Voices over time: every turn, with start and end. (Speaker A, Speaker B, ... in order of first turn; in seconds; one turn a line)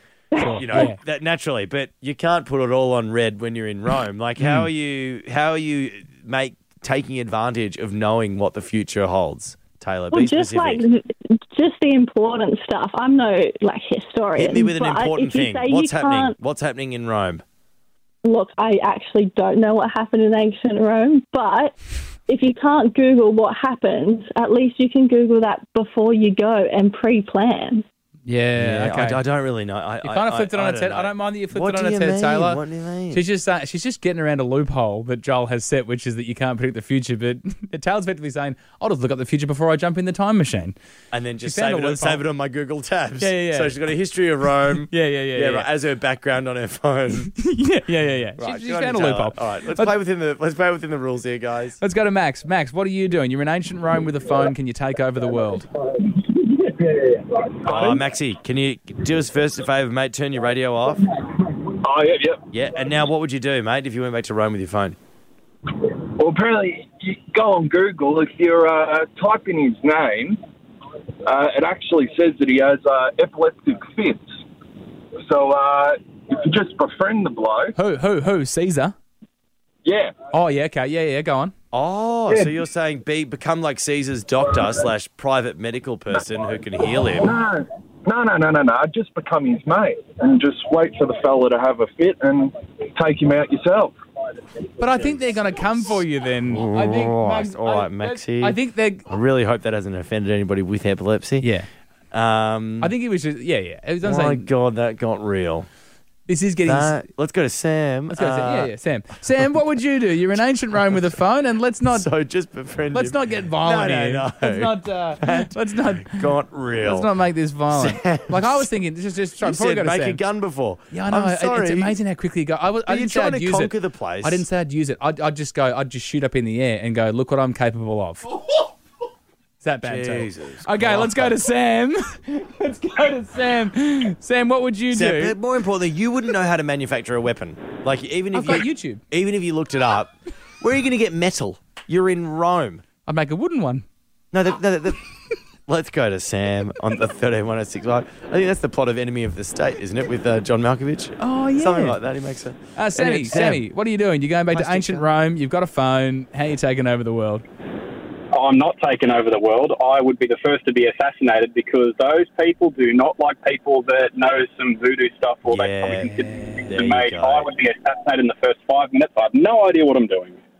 Speaker A: 0.4-0.9
Speaker B: 0.4-10.8
Speaker A: 4.4-4.7
Speaker C: 10.1-16.4
Speaker B: 14.3-17.4
Speaker C: 18.2-21.7
Speaker C: 22.3-27.8
Speaker A: 28.2-29.2
Speaker B: 28.6-33.2
Speaker A: 30.0-40.8
Speaker B: 41.1-47.3
Speaker A: 41.4-42.2
Speaker A: 43.2-43.7
Speaker A: 44.8-45.7
Speaker A: 47.3-49.9
Speaker B: 48.4-51.8
Speaker A: 51.8-55.7
Speaker D: 56.2-57.5
Speaker B: 57.6-61.0
Speaker D: 61.8-62.4
Speaker B: 62.5-65.0
Speaker D: 65.8-70.4
Speaker D: 71.2-74.3
Speaker D: 75.2-77.7
Speaker A: 77.8-78.9
Speaker D: 79.8-80.1
Speaker A: 80.3-81.5
Speaker B: 81.7-87.3
Speaker D: 82.3-82.5
Speaker D: 87.2-94.0
Speaker A: 94.8-99.1
Speaker B: 96.5-101.5
Speaker A: 101.4-101.7
Speaker B: 102.1-102.9
Speaker A: 102.8-104.5
Speaker B: 104.0-105.7
Speaker A: 106.3-107.0
Speaker B: 106.6-108.7
Speaker A: 108.1-112.1
Speaker B: 111.9-117.1
Speaker A: 112.9-116.3
Speaker A: 116.8-120.2
Speaker B: 117.7-118.7
Speaker B: 119.4-122.0
Speaker A: 120.9-128.3
Speaker B: 122.9-124.5
Speaker A: 129.6-135.4
Speaker B: 129.8-131.4
Speaker B: 134.9-142.8
Speaker A: 138.3-139.0
Speaker A: 143.1-143.8
Speaker B: 144.3-145.0
Speaker B: 145.7-153.6
Speaker A: 151.2-152.0
Speaker A: 152.8-157.4
Speaker B: 154.5-155.1
Speaker E: 158.3-170.4
Speaker B: 165.5-167.5
Speaker A: 166.3-166.7